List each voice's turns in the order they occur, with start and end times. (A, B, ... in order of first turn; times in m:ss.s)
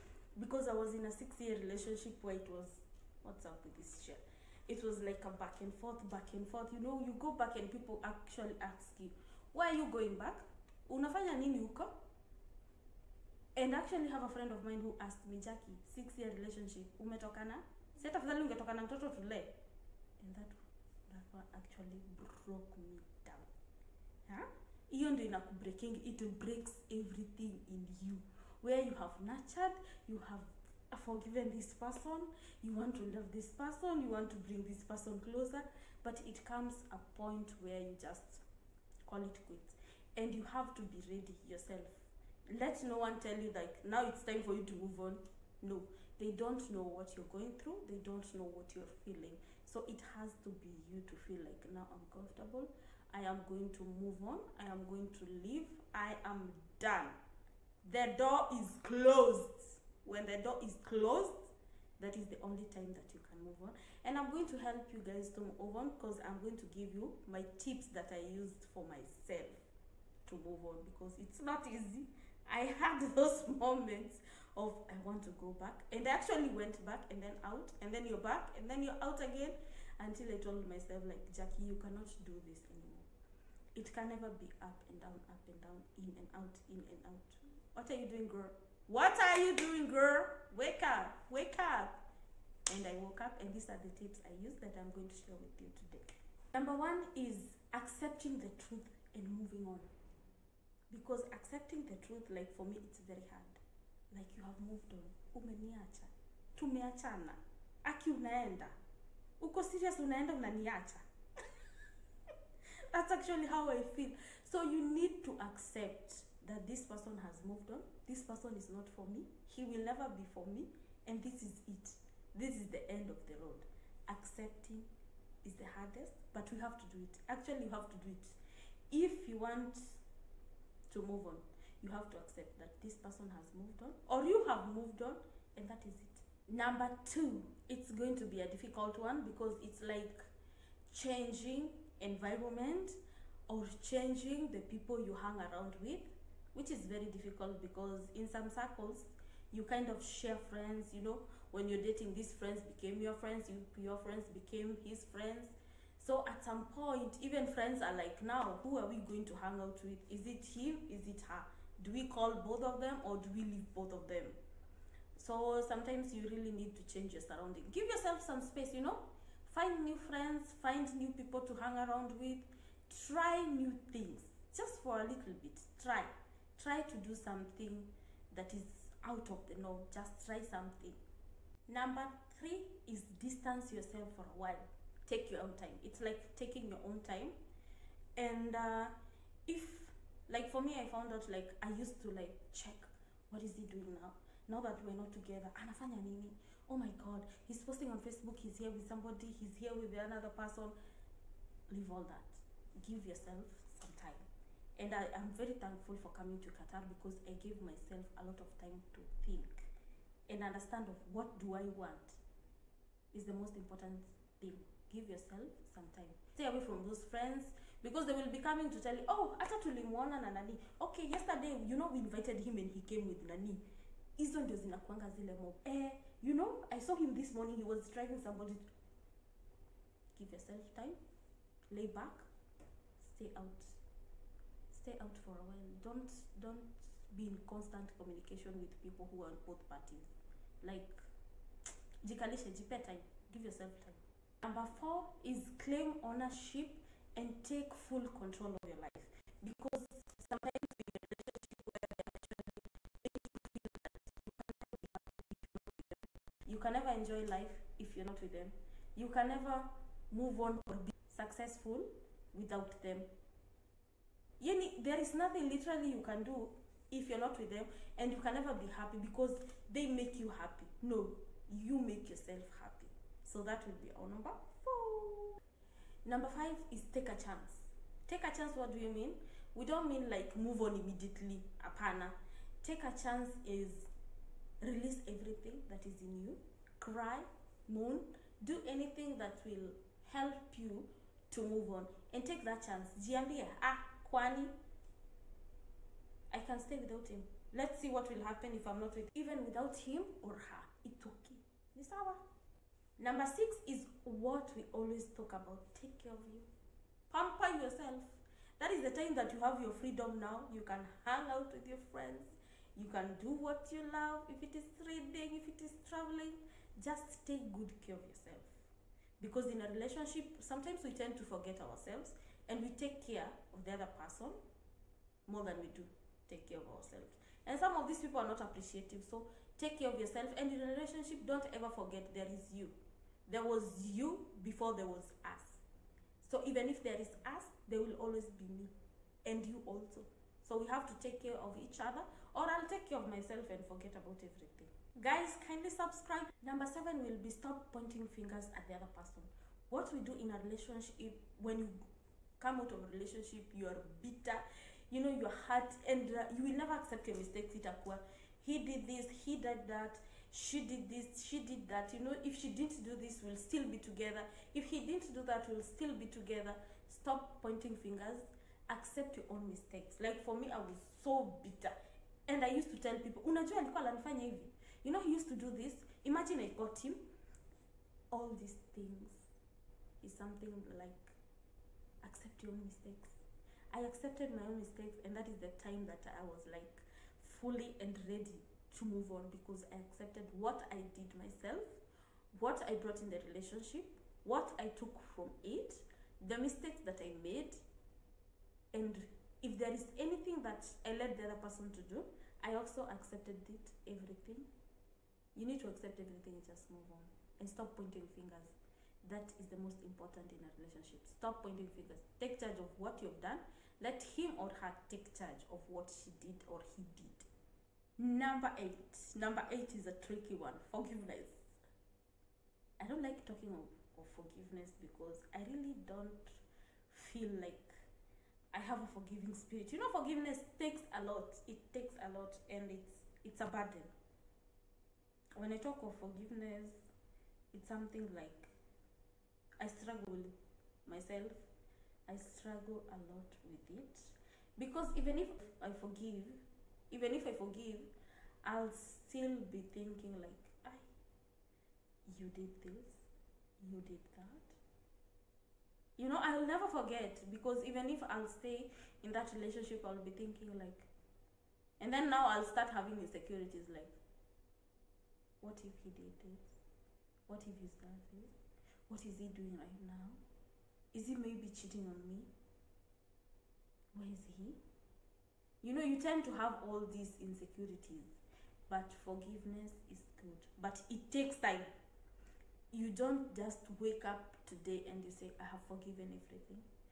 0:00.4-0:11.9 A
0:13.6-0:19.5 A
0:20.2-0:20.6 A
0:21.1-0:23.5 A
0:24.3-0:38.4 A
0:39.1-0:57.2 A
0:57.8-1:09.6 A
1:10.2-1:23.1 A
1:23.8-1:31.9 A
1:32.7-1:39.9 A
1:40.9-1:43.6 A
1:44.1-1:48.8 A
1:49.4-1:51.0 A
1:52.9-2:04.9 A
2:05.4-2:08.4 A
2:08.9-2:10.0 A
2:10.9-2:20.2 A
2:20.9-2:44.4 A
2:45.2-3:01.0 A
3:01.7-3:07.4 A
3:08.2-3:08.9 A
3:09.5-3:20.8 A
3:21.7-3:24.2 A
3:24.8-3:29.7 A
3:30.3-3:32.2 A
3:33.1-3:43.6 A
3:44.2-3:48.6 A
3:50.1-3:51.0 A
3:51.7-3:52.3 A
3:53.0-3:53.8 A
3:54.7-4:00.1 A
4:00.6-4:01.1 A
4:02.0-4:23.1 A
4:24.4-4:35.4 A
4:36.0-4:43.9 A
4:44.6-4:54.5 A
4:56.3-5:02.2 A
5:03.0-5:06.5 A
5:07.1-5:18.6 A
5:19.2-5:24.4 A
5:25.3-5:35.6 A
5:36.2-5:38.7 A
5:39.3-5:51.8 A
5:52.4-6:11.7 A
6:12.3-6:17.0 A
6:18.1-6:19.2 A
6:20.0-6:21.2 A
6:22.0-6:23.2 A
6:23.7-6:31.8 A
6:32.3-6:37.6 A
6:38.7-6:44.5 A
6:45.4-6:57.3 A
6:58.0-7:01.4 A
7:02.8-7:07.8 A
7:08.5-7:13.9 A
7:15.4-7:16.8 A
7:17.5-7:18.5 A
7:19.6-7:20.3 A
7:20.9-7:21.5 A
7:22.1-7:27.9 A
7:28.4-7:30.9 A
7:32.1-7:33.1 A
7:33.6-7:34.6 A
7:36.0-7:40.9 A
7:41.8-7:43.9 A
7:45.4-7:46.6 A
7:47.3-7:48.3 A
7:48.9-7:50.2 A
7:50.9-7:52.3 A
7:53.9-7:54.6 A
7:55.6-8:01.7 A
8:02.7-8:06.6 A